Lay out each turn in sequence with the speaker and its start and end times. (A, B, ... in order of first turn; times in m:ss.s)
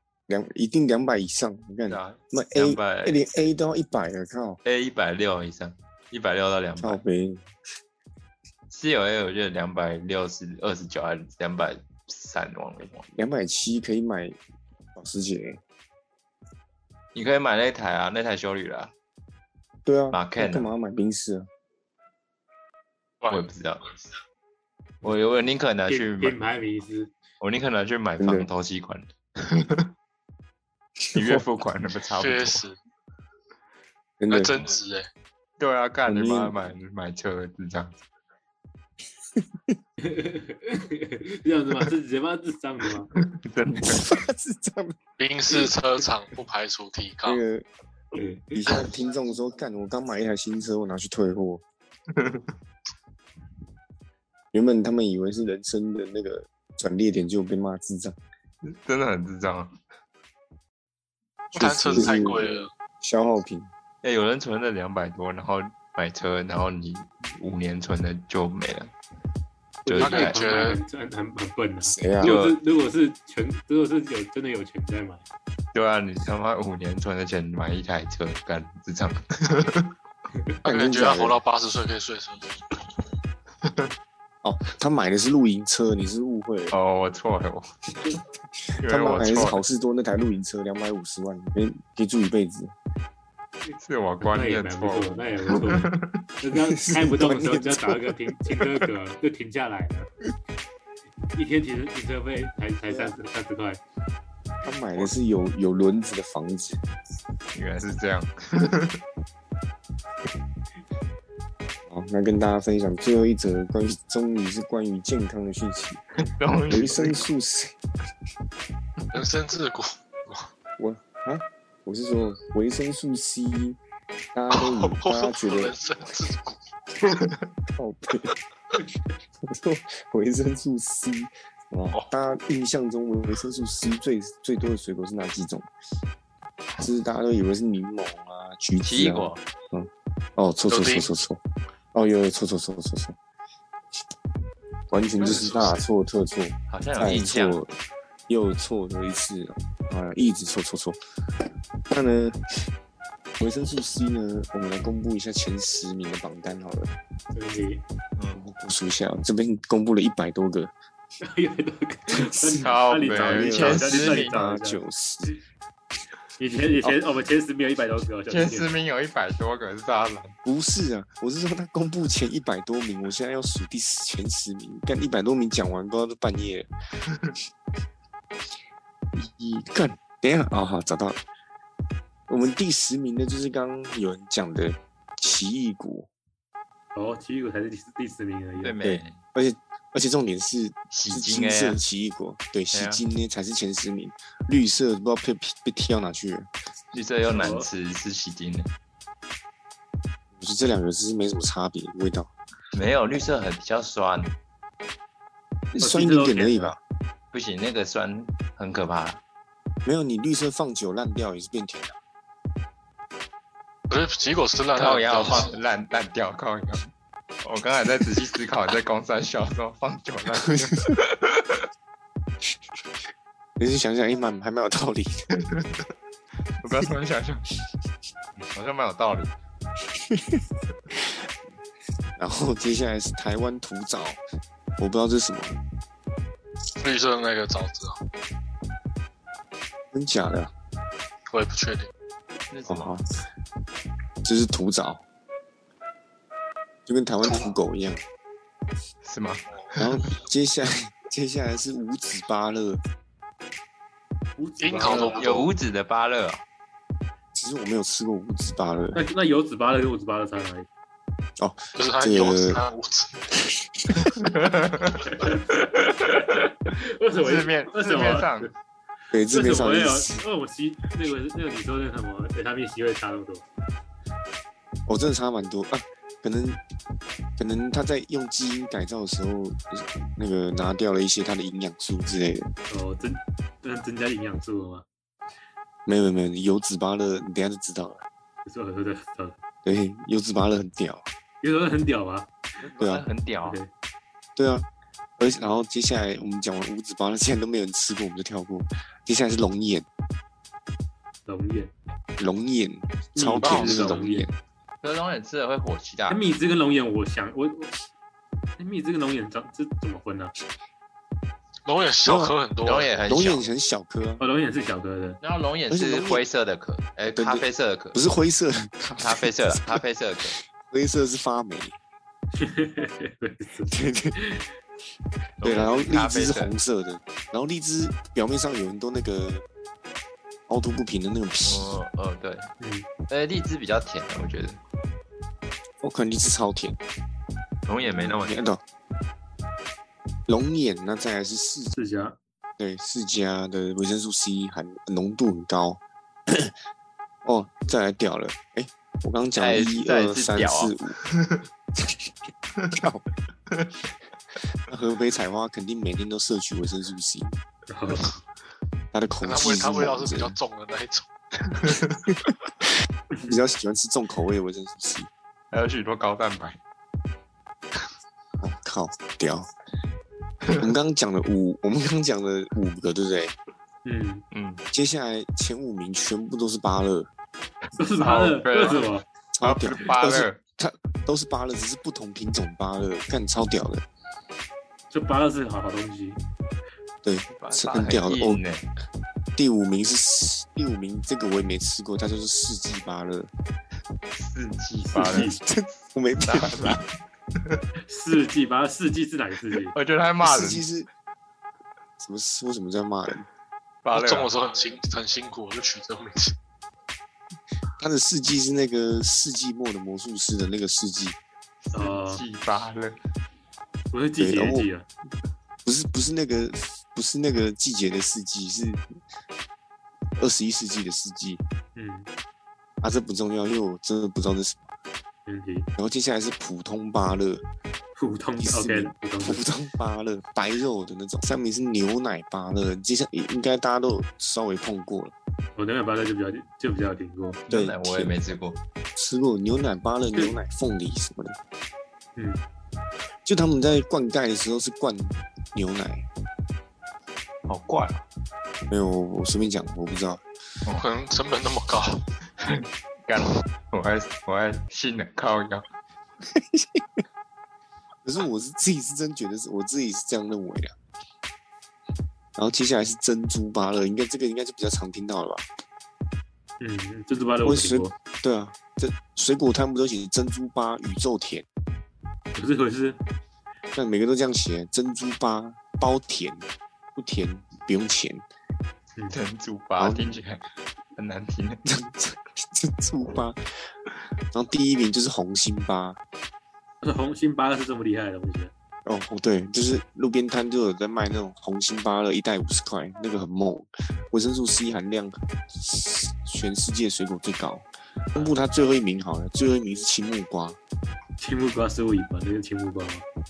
0:00.3-0:04.6 A
0:01.9-0:03.2 B
0:04.6-0:07.0 B
0:06.8-0:07.4 A
0:08.7-0:13.1 B
0:13.2-0:14.4 A
0:15.0-0:15.6 A
0:17.1-0:18.9 B
0:19.9-0:21.5 A
0:20.1-0:20.7 B
0:23.3-0:23.9 B
0:25.0-0:26.4 B
0:25.9-0:27.1 C
0:27.4-0:29.9 B
0:28.2-0:28.5 A
0:31.0-0:31.4 A
0:31.1-0:32.6 B
0:32.2-0:32.8 D
0:34.2-0:34.5 A
0:34.3-0:35.1 D
0:35.6-0:38.0 B
0:36.1-0:36.5 A
0:39.4-0:39.8 A
0:40.0-0:43.1 C
0:43.2-0:44.2 B
0:43.8-0:45.0 A
0:45.2-0:47.4 D
0:47.2-0:47.7 A
0:48.2-0:48.5 C
0:48.5-0:51.6 A
0:52.1-0:52.5 B
0:54.5-0:58.2 A
0:58.6-0:59.8 B
1:01.5-1:02.4 A
1:01.6-1:02.7 D
1:03.0-1:03.7 A
1:04.0-1:08.9 B
1:09.8-1:10.4 B
1:09.9-1:15.2 C
1:10.0-1:10.8 D
1:11.8-1:12.3 A
1:12.2-1:12.6 B
1:15.7-1:19.9 B
1:20.6-1:21.4 A
1:20.7-1:22.6 D
1:23.6-1:23.9 B
1:24.4-1:26.8 A
1:26.7-1:27.6 B
1:28.7-1:32.8 A
1:28.8-1:29.6 B
1:33.8-1:36.2 B
1:34.2-1:35.9 C
1:36.4-1:40.1 C
1:36.6-1:38.8 A
1:41.3-1:43.8 C
1:42.9-1:43.2 A
1:44.6-1:46.8 A
1:47.5-1:49.0 B
1:51.9-1:56.0 A
1:56.2-1:57.3 B
1:56.7-1:57.8 A
1:59.1-2:00.5 D
2:00.8-2:03.8 A
2:04.3-2:05.8 A
2:04.5-2:06.6 D
2:07.7-2:08.3 A
2:09.4-2:15.7 A
2:16.8-2:21.4 A
2:18.8-2:19.4 B
2:20.7-2:21.1 D
2:21.9-2:23.2 A
2:24.9-2:27.7 A
2:25.2-2:25.8 D
2:26.7-2:27.6 B
2:28.3-2:31.0 A
2:31.9-2:32.7 A
2:33.4-2:36.9 A
2:37.3-2:37.8 C
2:38.3-2:40.7 A
2:41.2-2:44.8 C
2:42.1-2:45.4 A
2:42.6-2:44.4 B
2:46.4-2:48.7 C
2:48.3-2:50.4 B
2:50.4-2:56.7 A
2:59.1-3:01.2 A
3:02.3-3:06.1 A
3:07.0-3:08.8 C
3:08.6-3:09.2 B
3:08.8-3:16.5 A
3:10.9-3:11.8 B
3:12.7-3:13.0 B
3:16.9-3:18.7 B
3:17.3-3:17.7 C
3:20.4-3:22.3 A
3:22.7-3:24.4 B
3:25.7-3:26.8 A
3:25.8-3:26.8 C
3:27.3-3:29.2 B
3:29.8-3:32.0 A
3:33.9-3:35.5 D
3:34.8-3:36.9 B
3:37.4-3:41.7 B
3:43.6-3:45.4 A
3:45.3-3:45.9 B
3:46.6-3:47.5 B
3:48.4-3:49.3 B
3:50.0-3:50.4 A
3:52.2-3:54.2 A
3:54.8-3:55.6 A
3:56.8-3:58.0 D
3:59.9-4:00.5 A
4:01.3-4:01.9 D
4:02.5-4:03.0 B
4:02.7-4:03.0 A
4:04.2-4:05.0 A
4:06.9-4:08.0 A
4:07.3-4:07.5 D
4:09.0-4:10.0 B
4:09.8-4:12.8 A
4:14.4-4:15.3 C
4:14.6-4:15.5 D
4:14.9-4:16.4 B
4:17.3-4:19.0 A
4:19.0-4:20.7 C
4:21.4-4:22.6 A
4:21.8-4:23.2 D
4:23.4-4:24.1 A
4:24.0-4:26.2 B
4:26.7-4:28.5 C
4:27.2-4:28.5 B
4:29.1-4:30.2 A
4:29.3-4:33.4 C
4:34.9-4:36.6 A
4:37.4-4:42.5 A
4:42.7-4:44.8 C
4:45.9-4:48.0 A
4:48.4-4:49.4 C
4:49.6-4:51.0 A
4:51.4-4:52.3 C
4:52.6-4:53.6 B
4:52.8-4:53.0 A
4:53.4-4:53.7 C
4:54.4-4:54.7 A
4:55.2-4:59.9 A
5:01.3-5:01.7 C
5:02.2-5:04.3 A
5:03.2-5:04.3 C
5:03.7-5:04.0 D
5:04.8-5:06.2 B
5:06.1-5:07.7 C
5:08.6-5:10.3 C
5:11.7-5:12.9 D
5:12.0-5:12.4 A
5:12.6-5:13.4 B
5:13.1-5:14.2 A
5:14.2-5:15.2 C
5:15.2-5:18.0 B
5:15.7-5:16.2 A
5:17.1-5:21.8 A
5:18.8-5:20.4 B
5:22.3-5:24.4 C
5:23.7-5:24.2 A
5:25.4-5:26.5 B
5:25.4-5:29.4 A
5:30.5-5:31.8 A
5:31.4-5:32.5 B
5:32.6-5:32.9 C
5:33.1-5:34.6 B
5:35.8-5:36.8 A
5:37.6-5:38.4 B
5:37.9-5:38.6 A
5:40.3-5:41.7 A
5:41.8-5:42.2 C
5:42.6-5:46.6 A
5:47.2-5:51.0 A
5:49.4-5:51.4 B
5:51.8-5:52.1 A
5:52.7-5:53.0 A
5:54.7-5:57.4 A
5:57.7-5:58.2 C
5:58.9-6:00.4 A
5:59.2-6:01.1 D
6:01.5-6:02.1 B
6:03.2-6:05.1 A
6:05.5-6:06.6 B
6:08.4-6:09.5 A
6:10.6-6:13.4 A
6:13.8-6:14.2 C
6:14.3-6:14.6 B
6:14.7-6:17.1 A
6:17.8-6:19.0 C
6:18.0-6:18.9 B
6:19.3-6:23.8 A
6:19.4-6:20.4 B
6:24.9-6:26.2 C
6:27.0-6:28.4 A
6:27.3-6:28.6 B
6:29.4-6:33.3 A
6:34.1-6:35.3 B
6:34.9-6:35.4 C
6:35.0-6:36.8 A
6:36.2-6:36.8 B
6:37.9-6:39.8 C
6:39.7-6:40.6 B
6:40.2-6:40.9 A
6:42.0-6:43.3 A
6:43.8-6:44.3 B
6:43.9-6:46.3 D
6:47.8-6:51.2 A
6:51.6-6:53.0 B
6:51.7-6:52.2 C
6:53.9-6:54.9 C
6:54.2-6:54.7 A
6:55.6-6:58.8 A
7:00.2-7:01.4 A
7:01.8-7:02.1 C
7:02.8-7:04.6 A
7:05.3-7:05.7 C
7:05.8-7:07.4 A
7:08.0-7:09.4 C
7:08.4-7:15.2 A
7:15.6-7:17.4 C
7:17.5-7:18.1 A
7:17.5-7:18.6 B
7:19.0-7:21.4 A
7:23.2-7:26.1 A
7:27.5-7:28.0 B
7:28.7-7:30.2 A
7:30.7-7:32.0 D
7:32.4-7:35.7 B
7:36.3-7:37.0 A
7:38.0-7:40.7 A
7:42.4-7:45.4 A
7:46.6-7:47.9 C
7:47.4-7:51.5 A
7:52.4-7:53.0 C
7:53.8-7:58.2 A
7:59.1-8:00.4 B
7:59.8-8:00.2 A
8:01.0-8:01.6 B
8:01.7-8:03.7 A
8:04.3-8:06.0 A
8:06.8-8:08.5 C
8:08.9-8:20.6 A
8:21.2-8:23.0 C